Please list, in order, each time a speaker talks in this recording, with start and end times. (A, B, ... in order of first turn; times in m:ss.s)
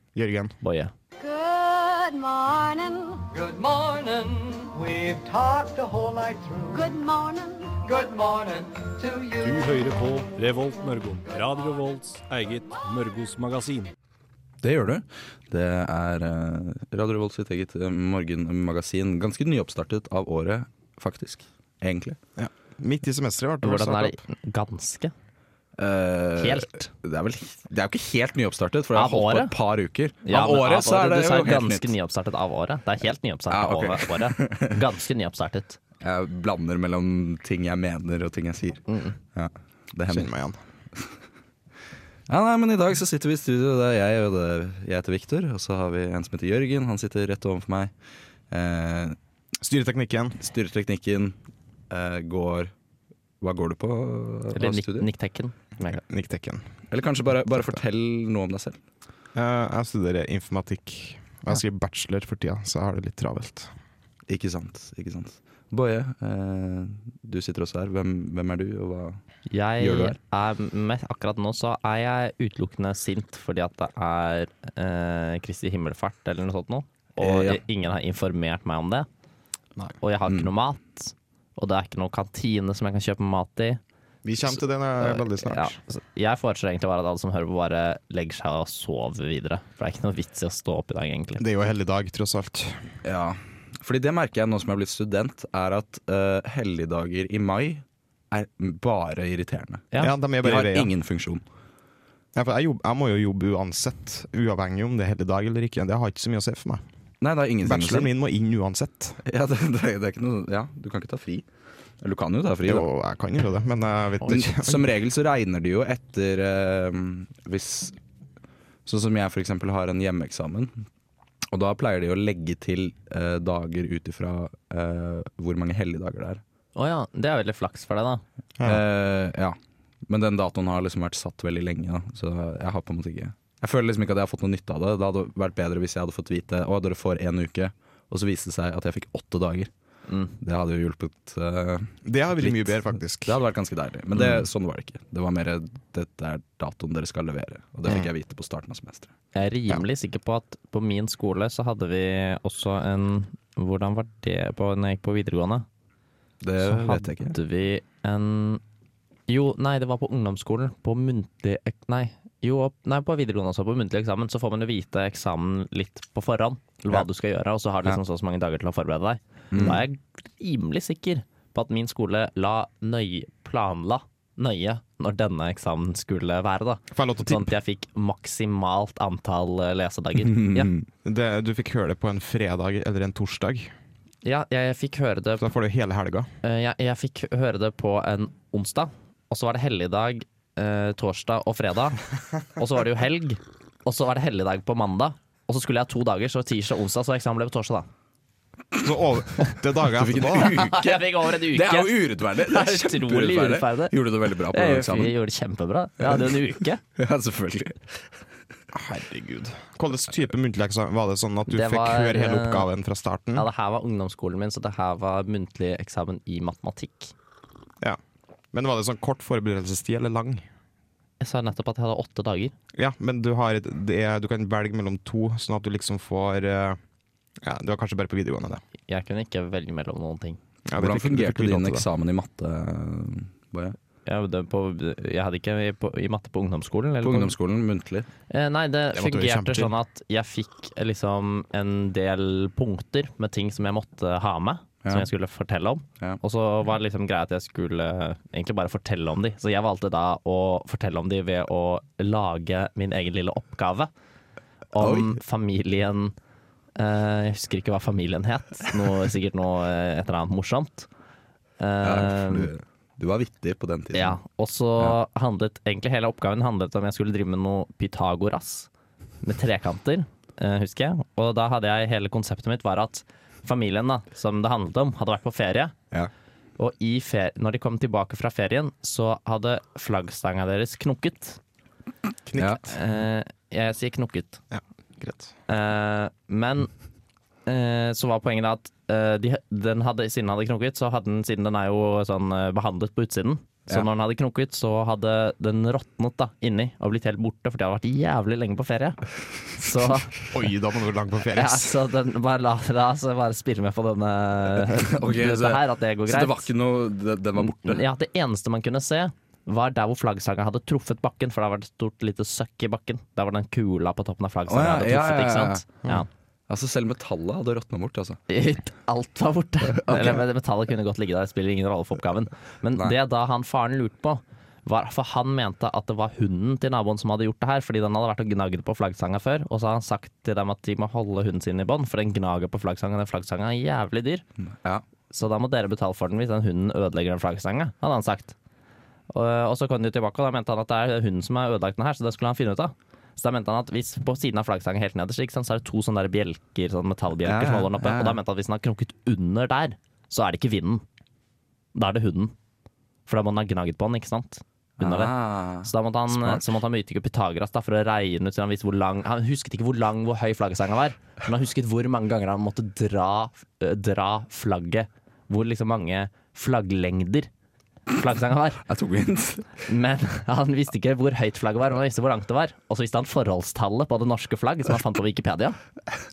0:00.2-0:00.6 A
0:00.6-0:00.9 B
0:01.2-0:03.3 C
0:03.3-0:06.8 D
0:06.7-0:07.8 C
0:07.8-0:09.6 D
0:09.4-0:13.9 E
0:14.6-0:22.2 F
0:22.4-0:24.2 A
0:23.6-0:25.1 B
0:25.8-0:31.9 F
0:26.4-0:26.9 B
0:29.0-0:29.6 B
0:30.2-0:35.8 B
0:33.5-0:34.8 F
0:36.0-0:40.3 F
0:38.9-0:39.2 B
0:40.1-0:40.6 A
0:42.3-0:47.9 F
0:48.5-0:49.2 F
0:49.6-0:50.4 A
0:50.4-0:51.4 F
0:51.9-0:52.7 F
0:53.4-0:55.1 F
0:54.5-0:56.0 B
0:55.8-0:56.6 A
0:56.9-0:58.8 F
0:59.4-1:03.7 A
1:04.3-1:09.2 F
1:09.5-1:19.1 B
1:09.8-1:10.2 F
1:17.2-1:17.6 F
1:20.0-1:23.8 B
1:24.2-1:25.8 A
1:25.0-1:31.4 B
1:31.4-1:32.8 A
1:33.0-1:39.9 F
1:40.0-1:40.9 A
1:40.4-1:41.4 F
1:42.3-1:46.8 A
1:47.2-1:48.1 F
1:47.6-1:49.2 A
1:49.2-1:51.4 F
1:52.0-1:52.9 F
1:52.6-1:54.9 A
1:54.2-1:58.0 F
1:58.9-2:00.8 F
2:01.5-2:06.4 F
2:06.8-2:08.2 B
2:08.6-2:09.6 F
2:10.1-2:19.7 F
2:20.1-2:20.4 B
2:20.4-2:29.1 F
2:22.0-2:23.4 A
2:29.4-2:35.7 B
2:36.4-2:37.4 F
2:36.6-2:38.6 B
2:39.3-3:00.7 B
2:49.5-2:49.8 F
2:56.9-2:57.5 A
3:00.3-3:00.8 F
3:01.0-3:03.7 A
3:04.2-3:05.5 B
3:05.4-3:06.3 A
3:06.4-3:12.0 B
3:12.6-3:17.9 B
3:18.8-3:20.6 A
3:20.0-3:25.2 F
3:20.4-3:24.0 B
3:24.5-3:26.8 B
3:26.0-3:26.4 F
3:27.0-3:28.1 F
3:28.7-3:33.5 A
3:31.5-3:32.7 B
3:33.4-3:37.1 B
3:38.5-3:40.5 A
3:41.2-3:42.5 B
3:42.8-3:46.8 A
3:47.4-3:48.6 A
3:48.9-3:50.4 B
3:50.7-3:51.9 A
3:50.8-3:53.8 F
3:54.1-3:57.4 B
3:57.0-3:58.1 F
3:58.3-4:13.9 B
3:58.9-3:59.7 A
4:14.7-4:16.1 B
4:14.8-4:15.2 F
4:16.8-4:20.9 B
4:21.6-4:22.5 B
4:21.8-4:24.2 F
4:23.9-4:28.7 B
4:29.2-4:35.8 B
4:36.6-4:41.4 B
4:42.3-4:42.6 A
4:42.4-4:42.6 F
4:42.4-4:44.4 B
4:44.5-4:45.3 A
4:45.5-4:46.7 B
4:47.5-4:59.0 B
4:59.5-5:00.2 B
5:00.3-5:01.8 A
5:01.3-5:06.5 B
5:04.6-5:07.8 F
5:07.4-5:16.1 B
5:14.5-5:15.8 F
5:16.5-5:18.2 F
5:18.3-5:34.2 B
5:19.8-5:20.2 F
5:35.1-5:38.4 B
5:39.1-5:50.8 B
5:47.2-5:48.2 F
5:51.7-5:52.3 B
5:53.1-6:07.3 B
5:54.8-5:56.4 F
6:07.9-6:08.6 B
6:08.7-6:09.5 F
6:09.6-6:15.6 B